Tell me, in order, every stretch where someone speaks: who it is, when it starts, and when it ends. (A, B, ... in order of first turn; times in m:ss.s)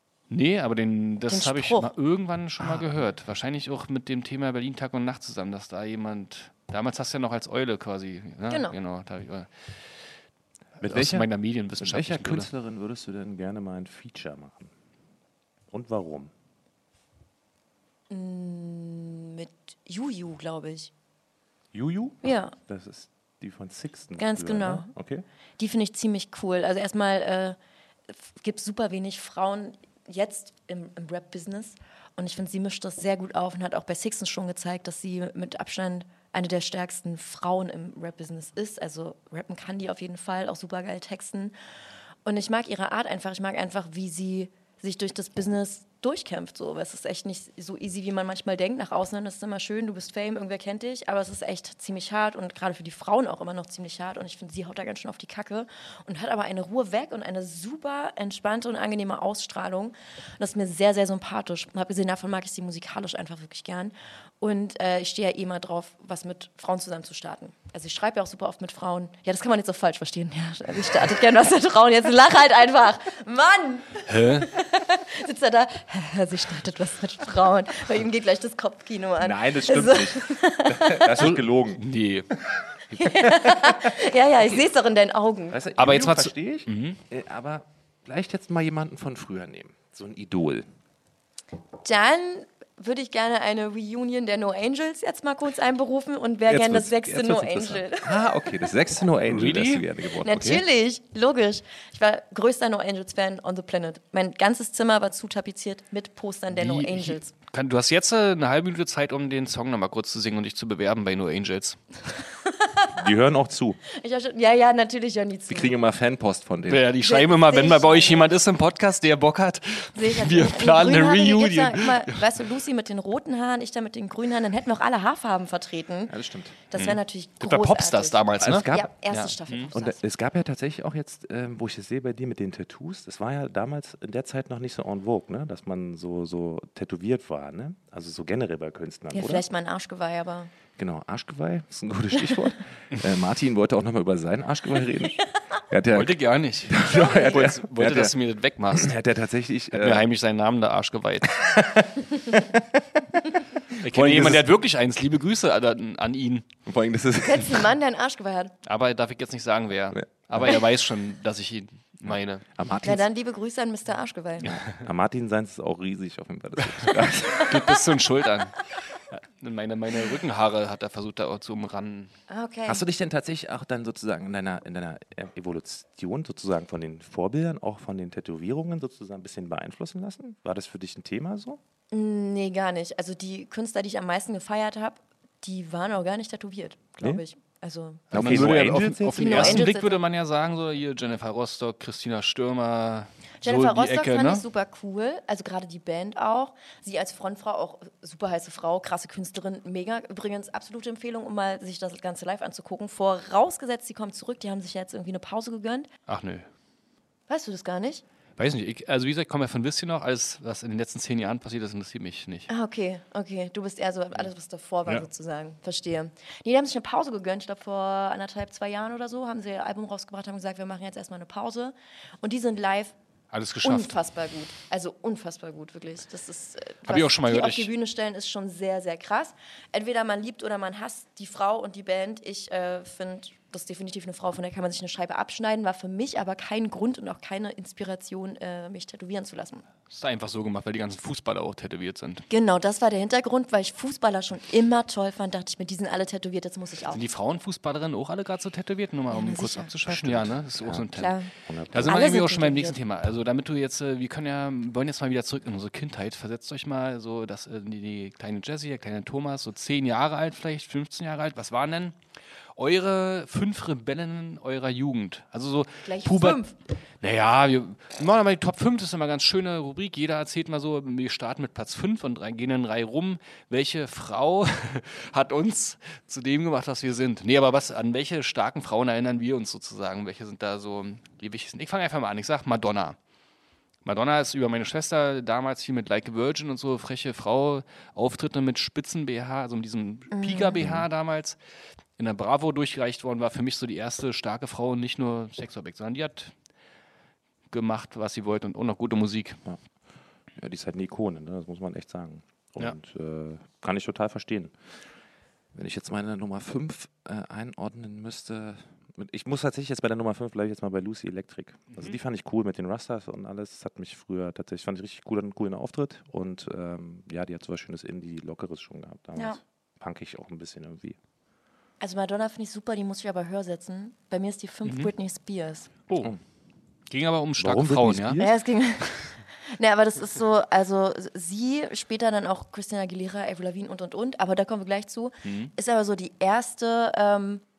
0:00.3-0:09.5 A
0:01.3-0:01.9 B
0:08.5-0:08.7 B
0:10.8-0:14.7 C
0:10.8-0:12.5 A
0:15.7-0:16.3 C
0:18.1-0:20.9 B
0:21.7-0:25.2 C
0:22.2-0:22.5 B
0:24.2-0:24.9 B
0:25.6-0:27.6 B
0:28.2-0:41.5 B
0:42.2-1:21.1 B
1:14.0-1:14.5 A
1:19.2-1:21.8 C
1:21.2-1:22.3 A
1:22.9-1:23.9 C
1:23.0-1:25.6 B
1:25.5-1:30.6 C
1:25.8-1:27.0 A
1:31.8-1:38.2 B
1:36.5-1:40.6 C
1:39.3-1:39.8 A
1:40.2-1:47.3 B
1:46.5-1:51.8 A
1:52.5-1:52.9 B
1:53.0-1:53.8 C
1:53.9-1:55.7 B
1:55.5-1:56.9 C
1:56.7-2:02.4 A
1:57.0-1:58.3 B
2:00.0-2:06.1 B
2:06.1-2:06.6 C
2:06.7-2:08.2 B
2:06.7-2:09.7 A
2:08.4-2:08.9 C
2:08.7-2:10.0 B
2:09.7-2:19.4 C
2:19.1-2:20.5 B
2:20.8-2:28.1 C
2:25.9-2:28.9 A
2:26.8-2:27.4 B
2:28.7-2:30.0 C
2:29.7-2:31.5 A
2:31.4-2:34.4 C
2:33.8-2:36.5 A
2:36.6-2:37.6 C
2:37.2-2:38.5 B
2:38.6-2:42.4 A
2:42.0-2:43.0 C
2:42.8-2:44.5 B
2:44.5-2:47.6 C
2:47.4-2:48.6 A
2:49.1-2:52.1 A
2:52.3-2:52.8 B
2:52.6-3:01.6 C
3:01.9-3:10.0 B
3:08.1-3:09.7 C
3:08.1-3:14.4 A
3:13.4-3:25.9 B
3:26.1-3:26.5 A
3:27.3-3:28.0 B
3:28.4-3:32.5 A
3:32.5-3:42.9 B
3:43.3-3:44.0 A
3:43.6-3:59.6 B
3:46.8-3:47.7 A
3:59.9-4:02.2 A
4:02.3-4:07.0 B
4:06.9-4:11.2 A
4:09.1-4:09.7 B
4:09.9-4:10.8 C
4:10.9-4:11.3 B
4:11.4-4:12.0 C
4:11.7-4:21.9 A
4:11.8-4:12.8 B
4:22.6-4:26.4 A
4:25.8-4:26.5 B
4:27.0-4:43.0 A
4:43.8-4:51.4 A
4:50.1-4:50.6 B
4:50.6-4:50.9 C
4:52.0-4:56.3 A
4:57.5-4:59.4 A
5:00.4-5:04.5 C
5:05.5-5:21.0 C
5:11.7-5:12.0 A
5:21.8-5:25.7 B
5:24.6-5:24.9 A
5:25.9-5:26.1 A
5:26.9-5:28.2 A
5:27.4-5:28.4 C
5:28.2-5:37.4 B
5:35.2-5:35.5 A